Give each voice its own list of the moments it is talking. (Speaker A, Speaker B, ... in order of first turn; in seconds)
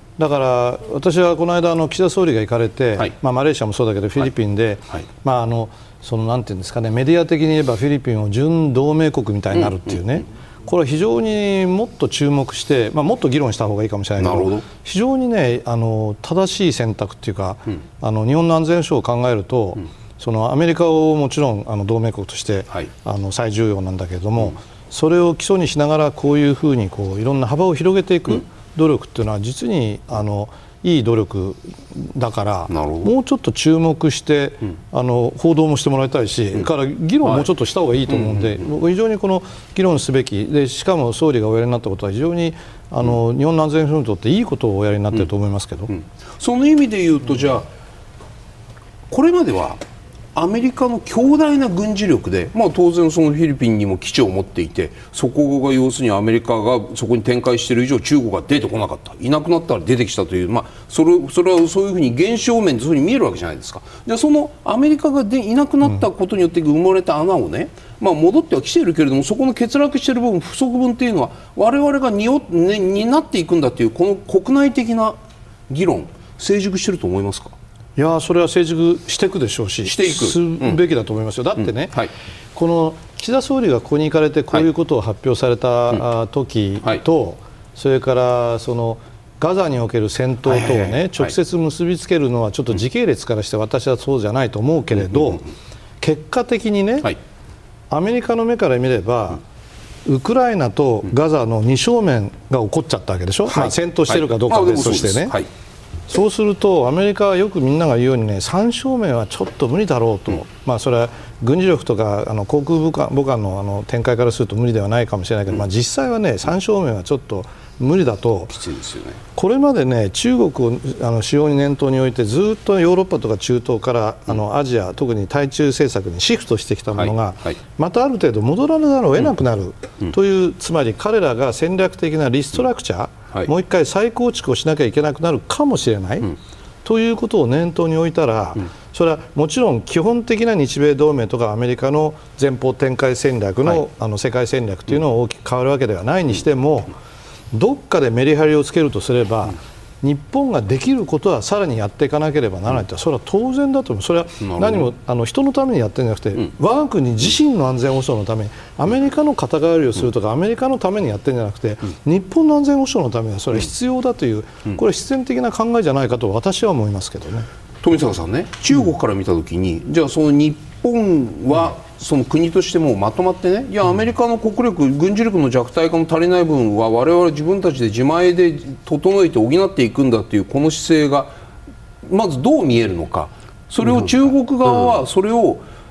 Speaker A: 0.2-45.9, 78.0-95.5, 96.0-97.2, 97.9-99.4, 100.0-105.4, 106.1-118.6, 119.3-146.9, 147.5-167.5
Speaker B: 14.2-14.6, 32.7-33.1, 45.9-47.7, 49.1-49.8, 50.3-75.2, 75.7-77.5, 79.9-80.8, 103.5-105.5, 118.5-119.2, 127.0-127.5, 154.5-154.8, 167.8-181.3, 182.0-185.6